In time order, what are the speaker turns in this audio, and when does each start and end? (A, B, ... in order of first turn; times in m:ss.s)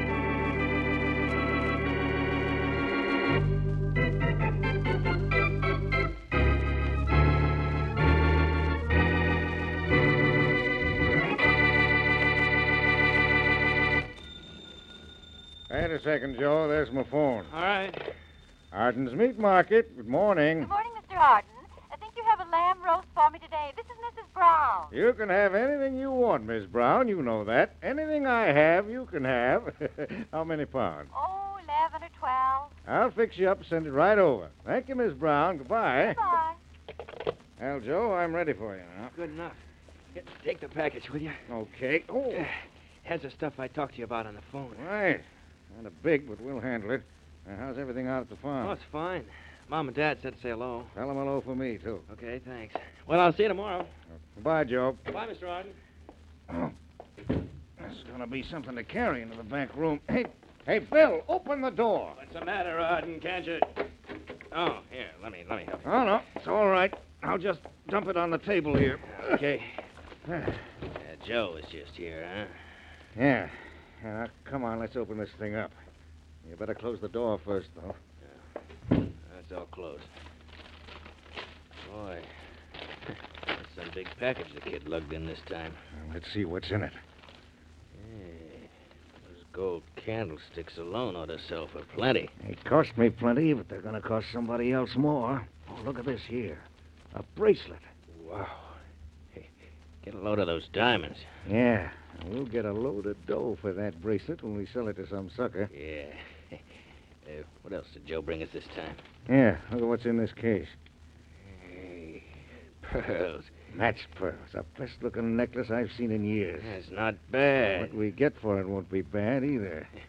0:15.7-0:17.5 A
0:17.5-0:18.0 B
0:18.7-0:20.7 A
0:20.6-0:24.9 C
0:24.9-0:31.1 A
0:31.1-0:32.7 C
0:32.8-0:36.2 A
0:37.6-0:39.1 A
0:39.1-0:39.6 B
0:40.1-0:41.4 B
0:41.5-0:42.5 A
0:42.3-0:44.8 B
0:44.7-0:48.8 A
0:48.6-0:50.9 B
0:50.9-0:52.0 A
0:52.1-0:53.9 B
0:54.3-0:55.0 A
0:55.1-0:55.7 B
0:56.5-0:56.7 A
0:57.8-1:02.2 A
1:02.2-1:03.7 B
1:04.5-1:05.8 B
1:05.8-1:09.4 A
1:09.1-1:09.7 B
1:10.3-1:10.5 A
1:11.0-1:12.5 B
1:13.2-1:15.7 A
1:16.4-1:18.0 A
1:19.2-1:20.1 B
1:21.8-1:22.3 B
1:23.5-1:25.8 B
1:25.9-1:27.0 A
1:27.9-1:28.7 B
1:29.2-1:32.3 B
1:32.4-1:37.9 A
1:38.1-1:38.8 B
1:40.0-1:41.3 B
1:41.4-1:45.7 A
1:45.7-1:46.6 B
1:47.2-1:49.0 B
1:49.3-1:50.8 A
1:51.4-1:52.2 B
1:52.8-1:53.5 B
1:53.7-1:56.8 A
1:56.6-1:57.9 B
1:57.7-1:59.9 A